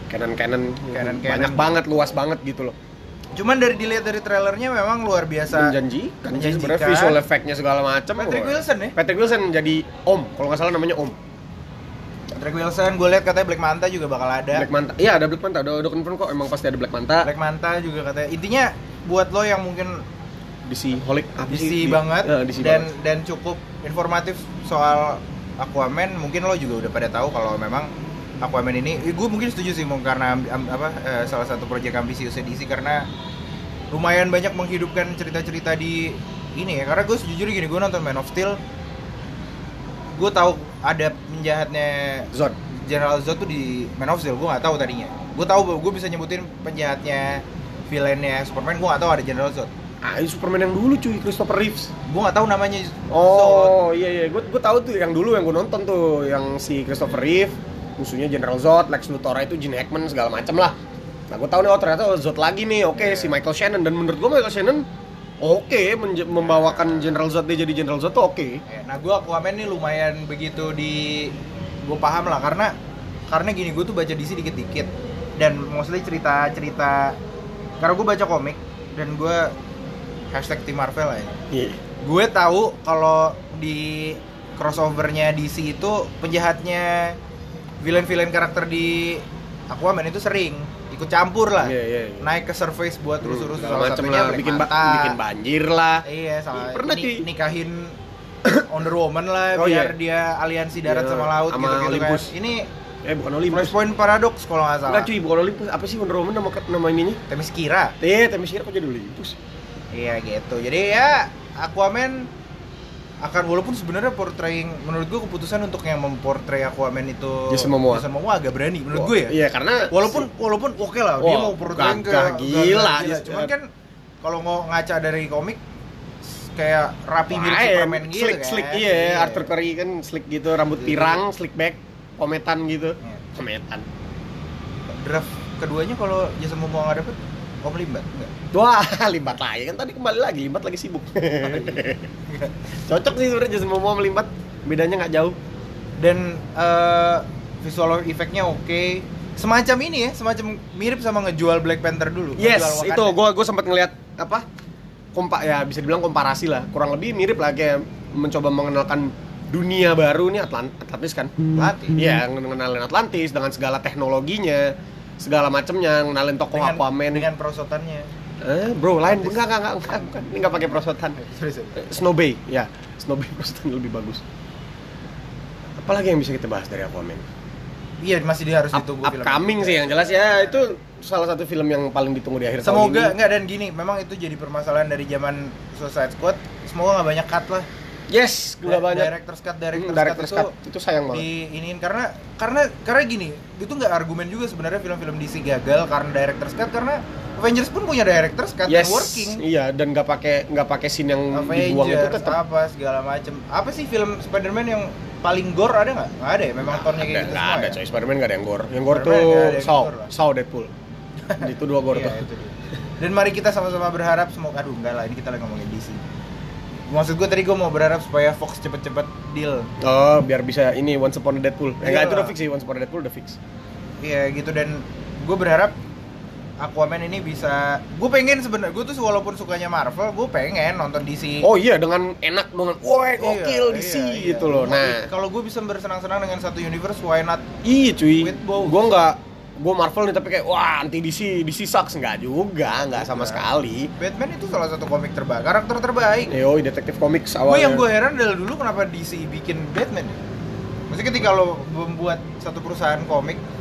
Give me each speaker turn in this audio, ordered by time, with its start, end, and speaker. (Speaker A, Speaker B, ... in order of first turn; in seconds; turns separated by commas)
Speaker A: 0.1-2.8, Speaker B: 0.9-1.8, Speaker B: 3.4-5.8, Speaker A: 5.5-11.2, Speaker B: 6.3-7.2, Speaker B: 8.2-9.0, Speaker B: 12.3-14.7, Speaker A: 14.5-17.3, Speaker B: 17.2-20.0, Speaker A: 20.7-22.9, Speaker B: 21.5-27.9, Speaker B: 28.4-33.1, Speaker B: 33.9-38.6, Speaker B: 40.1-49.7, Speaker A: 50.0-51.9, Speaker B: 52.1-53.8, Speaker A: 53.1-60.8, Speaker A: 61.3-64.9, Speaker B: 62.9-63.4, Speaker A: 65.4-68.6, Speaker B: 68.7-72.7, Speaker B: 73.3-77.2, Speaker B: 77.8-79.5, Speaker B: 80.3-81.4, Speaker A: 81.5-81.8, Speaker B: 82.0-87.2, Speaker B: 87.8-95.2, Speaker A: 91.6-92.3, Speaker A: 93.2-97.2, Speaker B: 96.0-98.0, Speaker B: 98.5-102.7, Speaker A: 99.6-100.0, Speaker A: 100.9-102.3, Speaker A: 103.0-103.8, Speaker B: 103.5-105.1, Speaker A: 104.9-107.2, Speaker B: 107.3-108.0, Speaker A: 108.0-109.4, Speaker B: 109.9-112.3, Speaker B: 113.2-119.4, Speaker A: 117.5-118.0, Speaker A: 118.9-120.3, Speaker B: 119.9-123.7, Speaker A: 121.2-123.5, Speaker B: 124.2-125.6, Speaker B: 126.2-129.5, Speaker A: 127.3-133.9, Speaker B: 130.7-131.2, Speaker B: 135.0-138.3, Speaker A: 138.5-142.1, Speaker B: 141.4-142.5, Speaker A: 142.9-145.4, Speaker B: 146.0-153.2, Speaker A: 152.4-154.4, Speaker A: 155.2-161.4, Speaker B: 161.6-162.0, Speaker A: 161.9-167.3, Speaker B: 166.5-168.1, Speaker A: 168.4-171.2, Speaker B: 169.1-169.5, Speaker B: 170.5-171.9, Speaker A: 171.8-174.2, Speaker A: 175.8-177.3, Speaker B: 178.0-180.7, Speaker A: 178.7-183.2, Speaker B: 182.6-187.7, Speaker A: 188.1-189.1, Speaker B: 188.6-190.5, Speaker A: 189.8-191.3, Speaker B: 191.1-199.4, Speaker A: 198.7-202.4, Speaker B: 201.3-207.8, Speaker A: 206.7-210.7, Speaker B: 208.9-210.1, Speaker B: 211.2-216.0, Speaker A: 211.4-212.2, Speaker B: 216.9-219.7, Speaker A: 219.8-223.4, Speaker B: 221.8-222.3, Speaker B: 224.0-225.8, Speaker B: 226.6-231.5, Speaker A: 231.4-235.1, Speaker B: 233.2-237.5, Speaker A: 237.6-243.9, Speaker B: 238.2-238.9, Speaker B: 242.8-243.4, Speaker B: 244.0-246.3, Speaker A: 246.3-247.9, Speaker B: 247.4-250.2, Speaker B: 250.9-253.4